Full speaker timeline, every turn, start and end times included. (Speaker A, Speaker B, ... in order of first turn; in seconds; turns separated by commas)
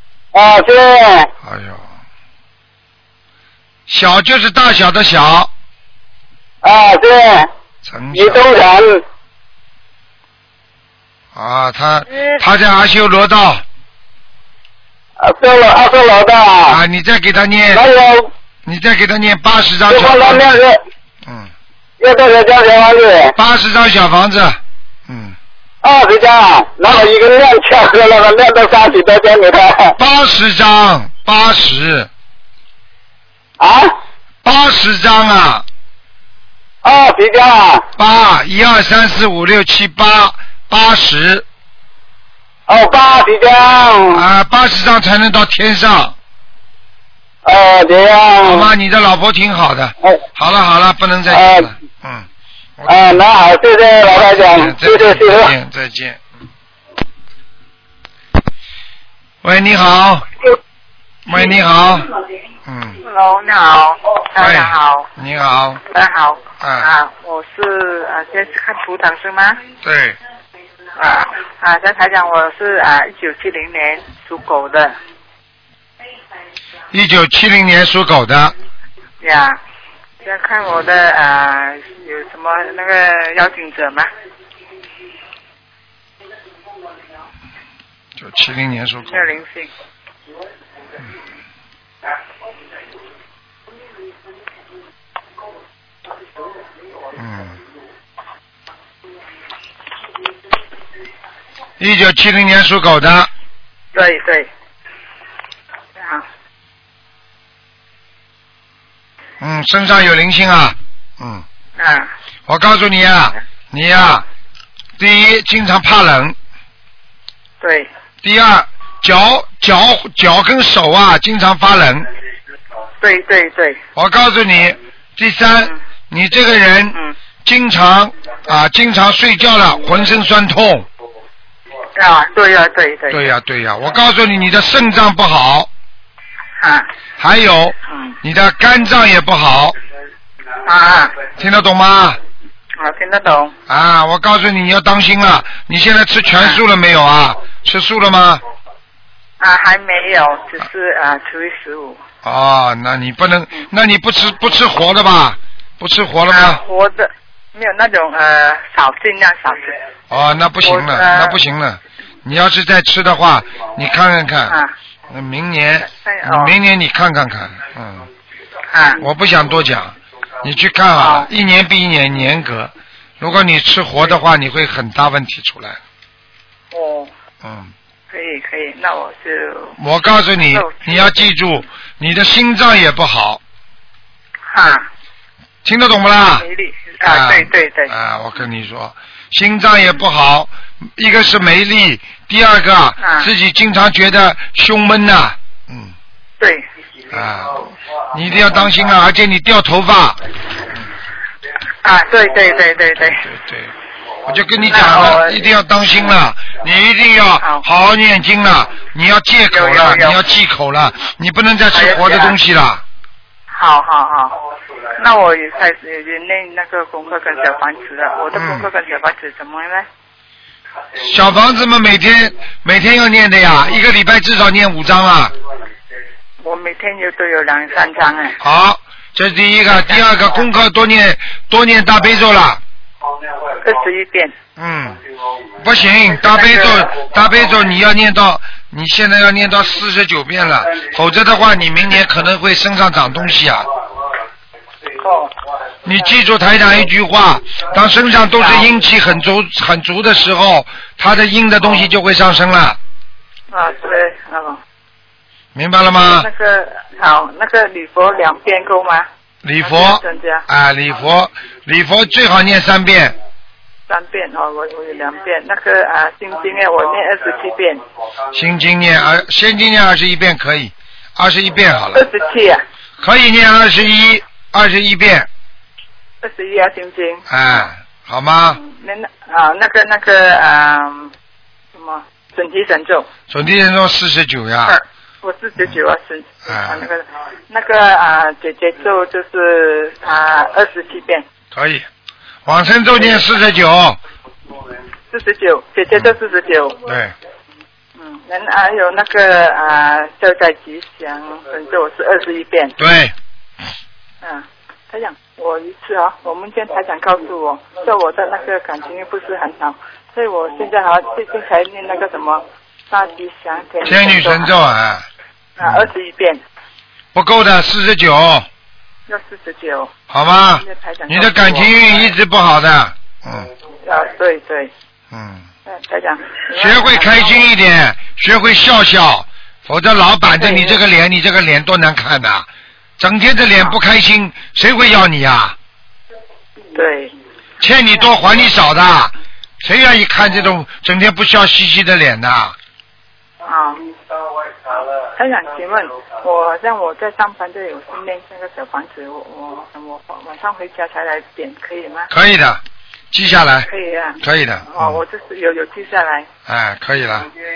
Speaker A: 0.3-1.3, Speaker B: 1.4-1.9, Speaker B: 3.9-5.5, Speaker A: 6.6-7.5, Speaker B: 7.8-8.4, Speaker A: 8.1-9.0, Speaker B: 11.3-13.6, Speaker A: 15.2-16.8, Speaker B: 16.7-17.9, Speaker A: 17.7-18.3, Speaker B: 18.6-20.6, Speaker A: 19.9-20.8, Speaker B: 21.2-21.5, Speaker A: 22.0-23.3, Speaker B: 23.4-25.4, Speaker A: 25.8-30.0, Speaker B: 30.0-32.1, Speaker A: 33.6-33.9, Speaker B: 34.4-35.6, Speaker A: 36.8-37.9, Speaker B: 38.0-41.5, Speaker A: 42.7-44.2, Speaker B: 44.1-46.1, Speaker A: 47.5-48.7, Speaker B: 48.4-52.3, Speaker A: 51.3-51.7, Speaker B: 52.8-53.2, Speaker A: 52.9-55.5, Speaker B: 54.2-56.2, Speaker B: 59.4-60.3, Speaker B: 61.3-62.1, Speaker B: 62.7-63.0, Speaker C: 63.0-65.1, Speaker B: 64.4-65.8, Speaker C: 65.9-69.6, Speaker B: 66.6-66.9, Speaker B: 69.8-70.2, Speaker C: 71.0-75.0, Speaker B: 76.9-78.5, Speaker C: 79.2-79.6, Speaker C: 80.2-84.1, Speaker B: 88.2-89.3, Speaker C: 89.1-89.7, Speaker B: 97.2-97.6, Speaker B: 101.8-103.3, Speaker C: 103.9-104.5, Speaker C: 106.0-106.3, Speaker B: 109.4-111.5, Speaker C: 111.8-112.1, Speaker B: 112.5-114.2, Speaker B: 115.0-116.4, Speaker C: 117.6-117.9, Speaker B: 118.2-122.1, Speaker C: 123.0-123.8, Speaker B: 124.0-130.9, Speaker C: 131.9-133.3, Speaker B: 133.1-135.7, Speaker C: 136.6-136.9, Speaker B: 137.2-139.8, Speaker C: 137.9-138.2, Speaker C: 140.7-141.2, Speaker B: 141.3-142.2, Speaker C: 142.8-143.6, Speaker B: 143.7-148.4, Speaker C: 149.4-152.0, Speaker B: 152.2-156.6, Speaker C: 156.3-159.8, Speaker B: 160.1-164.6, Speaker C: 160.6-161.4, Speaker C: 164.5-164.7, Speaker B: 165.1-168.1, Speaker C: 165.9-166.5, Speaker C: 168.7-169.1, Speaker B: 169.0-175.8, Speaker C: 171.0-171.3, Speaker C: 176.7-177.1, Speaker B: 177.4-177.7, Speaker C: 178.1-179.8, Speaker B: 179.8-183.4, Speaker C: 180.4-181.3, Speaker C: 184.5-184.9, Speaker B: 185.6-186.5, Speaker C: 186.4-187.9, Speaker B: 187.0-195.9, Speaker C: 193.0-193.3, Speaker C: 196.4-196.7, Speaker B: 197.1-200.2, Speaker C: 201.8-203.2, Speaker B: 203.0-203.7, Speaker B: 204.3-212.8, Speaker C: 204.6-205.6, Speaker C: 209.5-210.3, Speaker C: 211.7-212.4, Speaker C: 213.5-214.4, Speaker C: 215.0-219.9, Speaker B: 218.3-218.7, Speaker B: 221.0-225.3, Speaker C: 226.4-228.4, Speaker B: 228.4-232.6, Speaker C: 229.9-230.5, Speaker C: 233.6-234.3, Speaker B: 234.6-235.0, Speaker B: 235.6-243.7, Speaker C: 236.2-237.0, Speaker C: 245.0-245.3, Speaker B: 245.8-252.8, Speaker C: 248.4-248.7, Speaker C: 253.5-254.6, Speaker B: 255.6-256.3, Speaker C: 256.0-259.1, Speaker B: 259.4-263.2, Speaker C: 259.6-260.4, Speaker C: 263.9-267.8, Speaker B: 268.3-272.1, Speaker C: 271.9-272.6, Speaker B: 273.0-275.3, Speaker C: 276.2-277.7, Speaker B: 277.3-278.6, Speaker C: 278.6-281.1, Speaker C: 281.7-283.1, Speaker B: 283.3-284.8, Speaker C: 284.6-291.2, Speaker B: 286.5-286.9, Speaker B: 291.5-291.9, Speaker B: 292.5-294.0, Speaker C: 295.1-296.8, Speaker B: 296.9-297.1, Speaker C: 298.0-302.8, Speaker B: 302.8-303.1, Speaker C: 304.2-314.5, Speaker B: 313.8-315.1, Speaker C: 315.6-316.4, Speaker B: 315.6-315.9, Speaker B: 317.1-318.5, Speaker C: 319.1-319.9, Speaker B: 320.1-323.5, Speaker C: 320.5-322.1, Speaker C: 323.8-324.7, Speaker B: 325.1-325.5, Speaker C: 325.7-327.5, Speaker B: 326.6-332.5, Speaker C: 330.4-330.8, Speaker B: 333.0-335.6, Speaker C: 336.7-337.1, Speaker B: 337.6-342.6, Speaker C: 343.4-343.9, Speaker C: 344.7-352.1, Speaker B: 352.1-353.7, Speaker C: 353.7-354.2, Speaker B: 354.2-355.0, Speaker C: 354.7-356.3, Speaker B: 356.5-357.3